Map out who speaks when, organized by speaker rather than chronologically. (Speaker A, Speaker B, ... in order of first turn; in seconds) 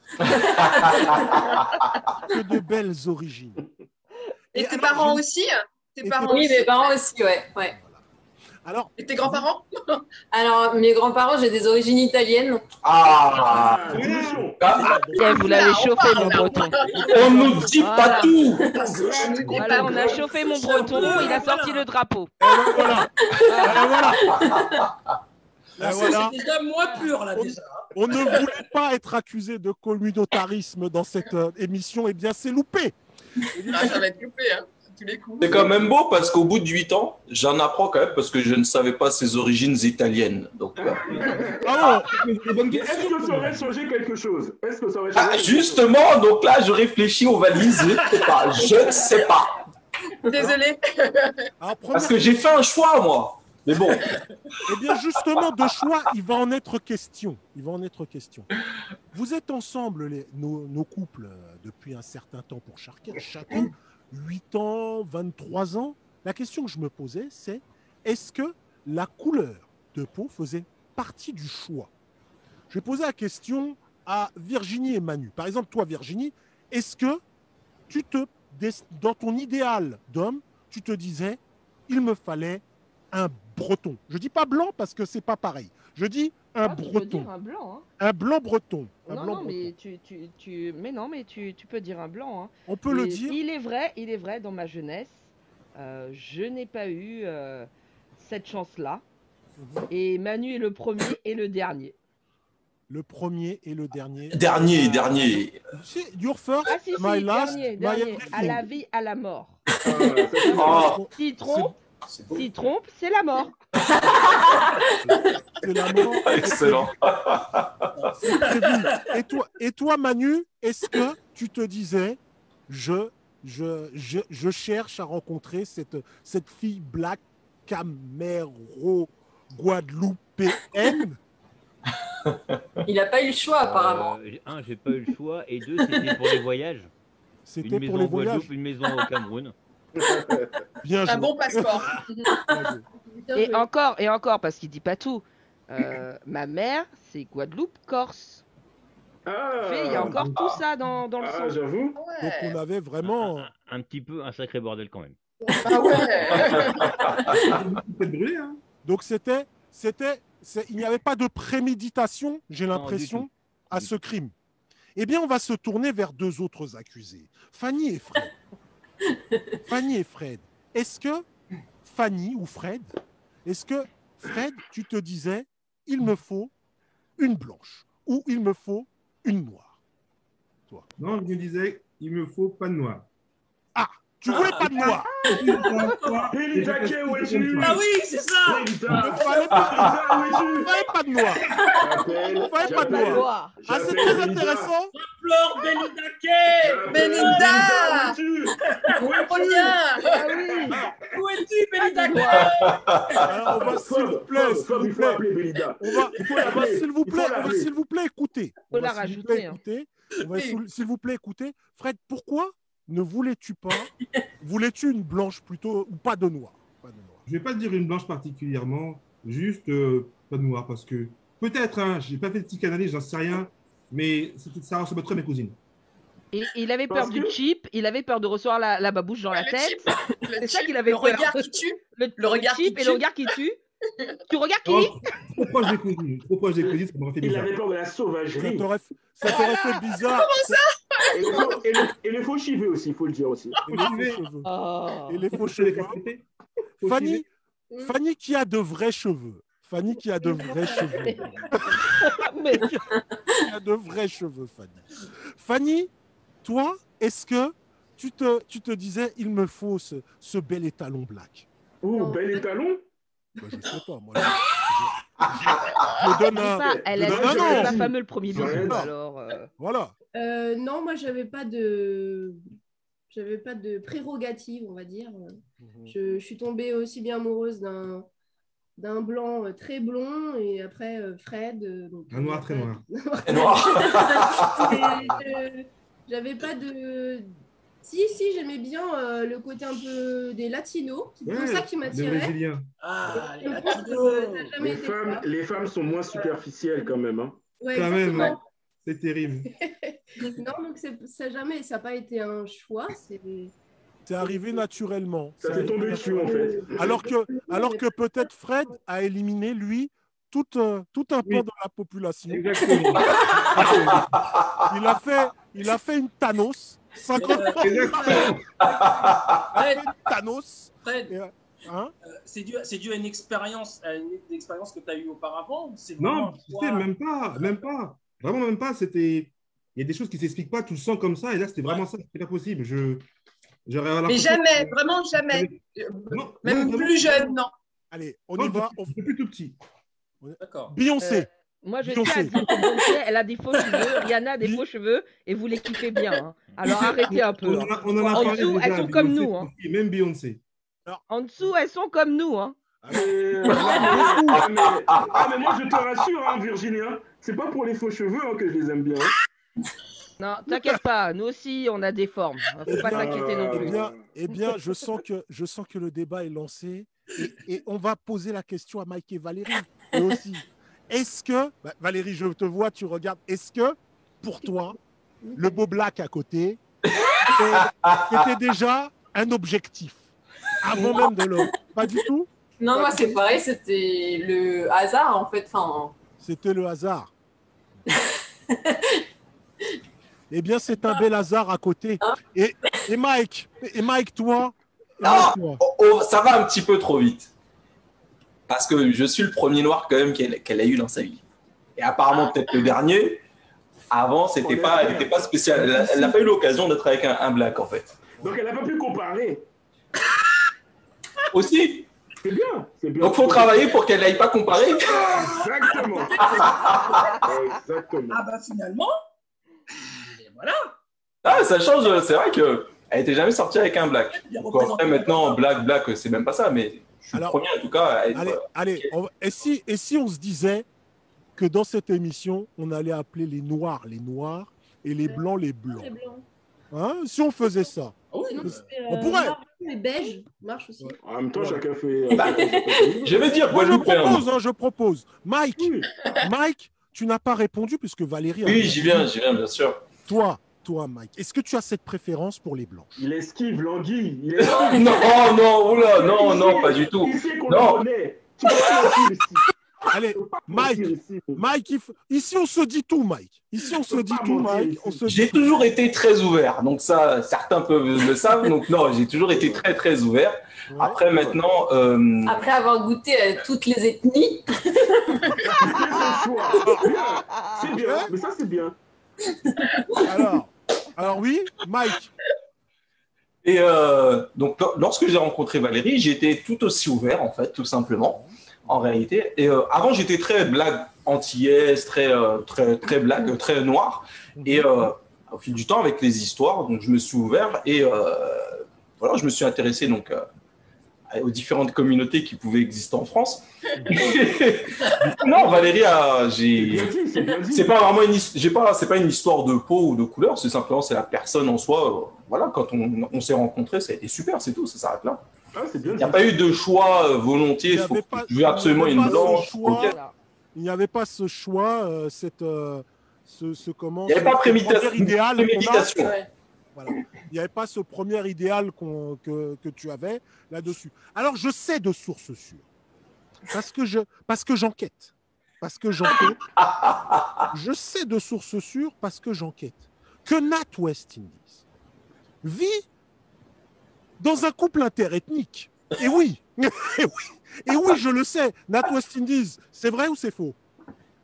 Speaker A: 0.3-1.8, 6.3-7.8, 10.3-12.6, 18.6-18.9, 22.7-24.9, 132.9-134.2, 169.1-169.4, 380.8-381.1, 382.6-385.9, 387.9-389.0, 402.2-402.6, 472.3-476.9, 479.5-480.3, 526.0-526.3
Speaker B: 2.2-3.6, 4.5-5.2, 6.0-6.5, 7.7-8.1, 8.6-9.5, 14.0-15.4, 22.4-24.4, 25.8-26.4, 27.3-33.0, 33.5-34.0, 41.6-42.1, 51.6-52.5, 54.7-58.5, 59.1-71.9, 72.7-77.2, 77.9-87.3, 88.0-89.7, 92.7-93.4, 99.6-99.9, 102.9-108.6, 110.5-111.8, 115.0-116.9, 118.3-131.2, 137.4-138.5, 140.8-142.9, 152.2-153.5, 158.8-164.3, 165.0-168.3, 169.7-171.2, 171.8-172.9, 173.4-176.5, 177.2-179.8, 183.8-185.1, 188.9-190.0, 190.5-191.4, 192.4-194.9, 203.2-205.2, 205.8-217.2, 238.4-240.6, 243.7-244.5, 245.1-246.0, 246.8-247.3, 247.8-255.9, 256.4-261.5, 263.4-268.9, 269.6-269.9, 275.6-275.9, 284.4-285.3, 304.1-314.1, 314.7-317.9, 319.5-321.9, 337.9-339.0, 340.2-341.3, 341.8-342.3, 352.8-354.5, 362.7-374.8, 375.4-376.6, 377.3-380.1, 380.6-383.2, 386.2-387.1, 390.3-395.6, 428.1-430.7, 431.4-435.9, 436.7-439.4, 443.5-449.1, 450.1-453.1, 459.9-465.5, 470.7-471.4, 476.6-476.9, 477.7-478.1, 480.0-482.1, 488.0-488.9, 494.4-494.7, 503.8-504.2, 517.7-520.0, 520.5-525.9, 526.8-532.7, 533.5-536.4, 537.5-541.6, 542.4-542.9, 544.2-550.6
Speaker C: 4.5-7.0, 9.0-10.0, 15.1-17.5, 18.1-20.2, 33.7-35.9, 50.2-51.5, 141.1-142.3, 152.0-152.6, 155.6-157.0, 196.9-198.2, 198.9-200.1, 229.3-233.0, 239.2-241.6, 334.1-337.5
Speaker D: 12.8-14.1, 14.6-15.1, 17.1-18.7, 24.4-24.8, 35.4-41.6, 45.2-49.6, 51.9-54.2, 104.3-105.6, 110.6-111.0, 112.1-112.5, 113.9-114.6, 116.2-117.7, 189.5-189.9, 202.4-203.2, 265.5-265.9, 283.2-284.8, 318.1-319.5, 353.7-354.2, 377.3-378.3, 395.0-397.3, 398.5-401.2, 401.8-403.2, 403.9-408.0, 411.3-411.9, 413.0-415.3, 416.2-417.1, 421.2-428.9, 443.0-444.2, 448.4-449.8, 454.5-457.8, 458.5-458.9, 465.1-472.5, 483.4-500.2, 501.1-506.9, 507.5-515.2, 516.0-520.0, 524.1-526.1, 536.6-537.5
Speaker E: 13.3-15.2, 16.3-17.7, 18.6-21.1, 40.8-41.8, 42.7-45.8, 109.8-111.0, 139.9-140.7, 149.3-150.2, 151.2-152.0, 186.3-187.8, 188.4-190.8, 191.8-194.7, 196.6-198.6, 200.6-201.1, 203.5-207.7, 226.9-227.4, 237.2-238.7, 241.1-243.6, 261.8-262.8, 266.7-268.8, 294.6-297.4, 305.4-307.0, 352.9-359.1, 362.7-364.0, 404.4-405.9, 408.2-409.5, 412.2-413.7, 414.9-416.2, 417.2-418.2, 441.0-443.2, 445.6-445.9, 453.0-455.0, 455.9-459.5, 460.1-461.4, 463.9-465.0, 469.3-469.6, 475.5-478.8, 506.6-507.7, 515.5-516.4, 519.1-519.5
Speaker F: 13.9-14.5, 41.1-43.6, 149.9-150.6, 157.4-158.6, 181.0-183.1, 185.3-187.8, 217.3-225.6, 234.7-237.5, 243.7-244.2, 245.4-246.2, 246.8-247.2, 282.1-282.9, 291.2-292.7, 297.7-299.5, 312.3-314.2, 317.6-318.5, 326.0-333.0, 333.7-334.8, 335.3-337.3, 338.4-339.6, 346.7-350.4
Speaker G: 15.2-16.8, 17.8-18.3, 19.5-22.3, 23.5-23.8, 86.6-87.9, 89.1-99.0, 99.9-102.0, 106.7-109.6, 110.4-111.7, 112.3-113.5, 143.3-148.4, 149.6-151.6, 185.2-186.0, 192.5-193.6, 200.1-200.8, 201.8-202.5, 208.7-209.6, 226.3-229.8, 230.4-233.6, 234.3-235.0, 244.4-245.3, 250.7-251.1, 251.9-252.7, 266.0-269.5, 341.0-349.5, 351.1-352.6, 360.2-363.8, 477.3-477.6, 519.8-520.1
Speaker H: 16.6-18.4, 19.8-21.9, 25.8-28.6, 118.0-119.1, 184.3-186.4, 187.6-189.3, 191.2-192.3, 193.8-194.3, 194.9-203.5, 205.9-206.4, 292.8-294.6, 317.1-318.3, 319.5-319.9, 320.8-321.1, 322.0-327.6, 340.4-340.8, 415.2-417.4, 418.1-418.9, 419.9-420.8, 424.1-425.6, 438.1-438.7
Speaker I: 133.7-136.9, 137.6-139.5, 153.0-155.2, 162.7-163.9
Speaker J: 143.2-143.7, 250.2-251.0, 261.9-262.4, 270.2-272.4, 273.1-278.1, 278.8-292.4, 293.1-295.3, 296.0-297.0, 297.6-298.4, 299.7-303.5, 304.2-304.6, 305.5-308.7, 317.7-318.3, 374.4-375.6, 435.1-436.3, 438.3-441.0